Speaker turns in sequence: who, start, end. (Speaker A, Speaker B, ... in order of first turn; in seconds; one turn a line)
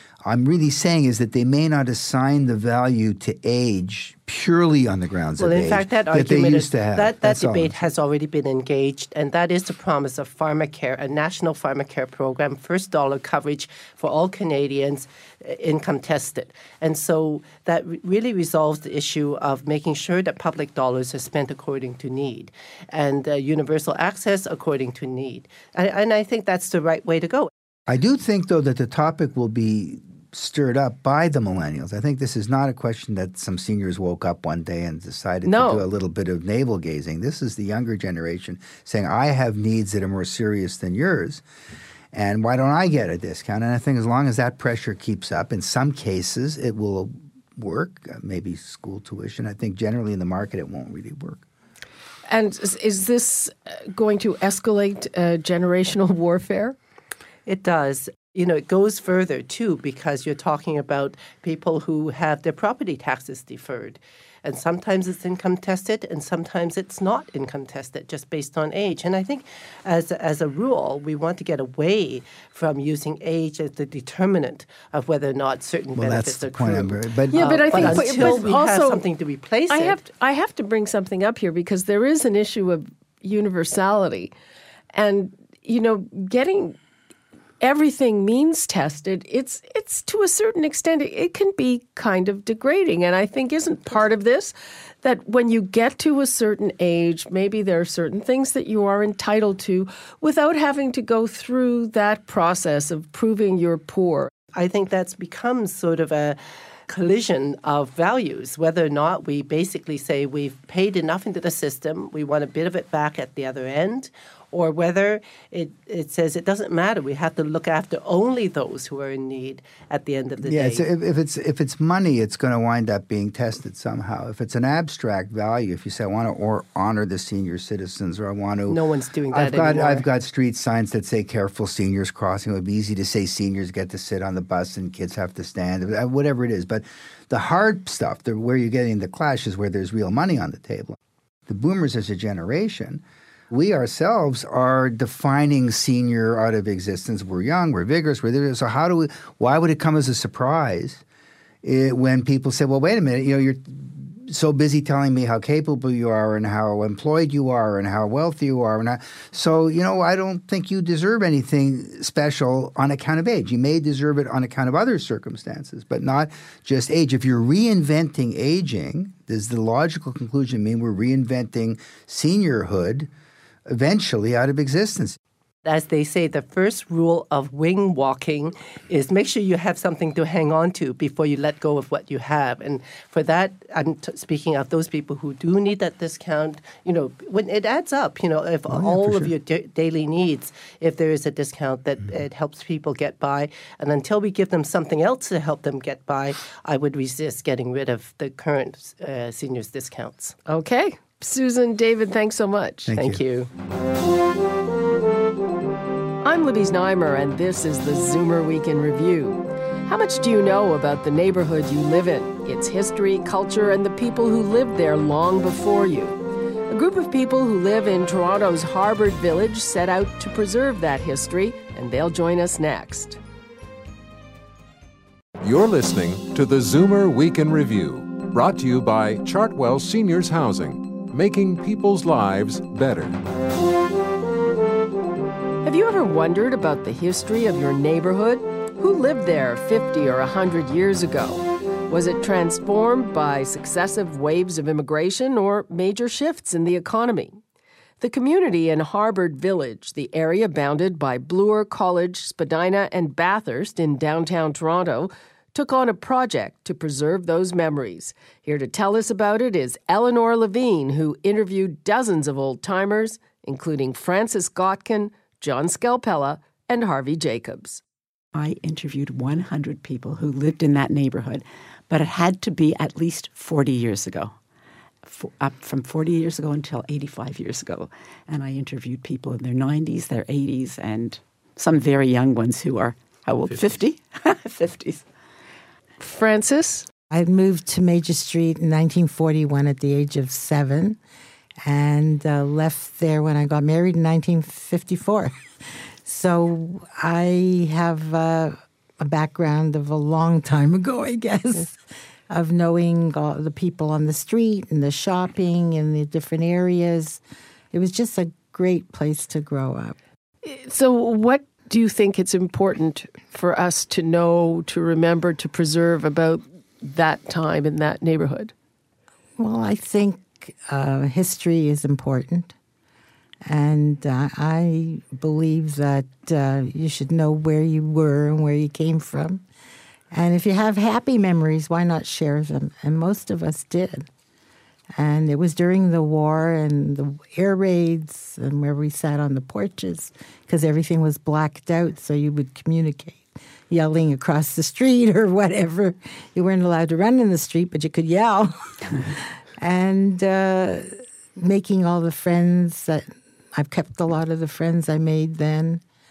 Speaker A: 0.2-7.8
Speaker B: 5.4-27.5
Speaker A: 27.9-41.4
Speaker C: 35.4-35.9
Speaker A: 42.1-51.4
Speaker C: 52.3-56.8
Speaker B: 57.5-80.0
Speaker A: 75.9-78.5
Speaker C: 77.3-79.0
Speaker C: 79.7-84.3
Speaker C: 84.9-86.8
Speaker C: 87.6-104.3
Speaker B: 104.5-120.8
Speaker A: 120.4-128.8
Speaker B: 128.7-130.0
Speaker A: 129.3-140.9
Speaker A: 141.5-151.0
Speaker A: 151.6-173.1
Speaker A: 173.7-175.2
Speaker B: 175.6-200.4
Speaker C: 200.4-203.5
Speaker A: 202.8-203.2
Speaker C: 206.2-216.2
Speaker C: 216.7-223.2
Speaker D: 225.4-233.2
Speaker C: 235.6-247.3
Speaker C: 248.0-267.8
Speaker E: 268.3-274.3
Speaker E: 275.0-285.0
Speaker C: 286.0-286.9
Speaker F: 287.1-291.0
Speaker F: 291.6-295.3
Speaker F: 296.0-301.8
Speaker F: 302.3-307.2
Speaker F: 307.7-310.0
Speaker C: 310.4-318.5
Speaker F: 319.4-322.5
Speaker F: 323.4-329.4
Speaker F: 330.1-334.1
Speaker F: 335.0-355.8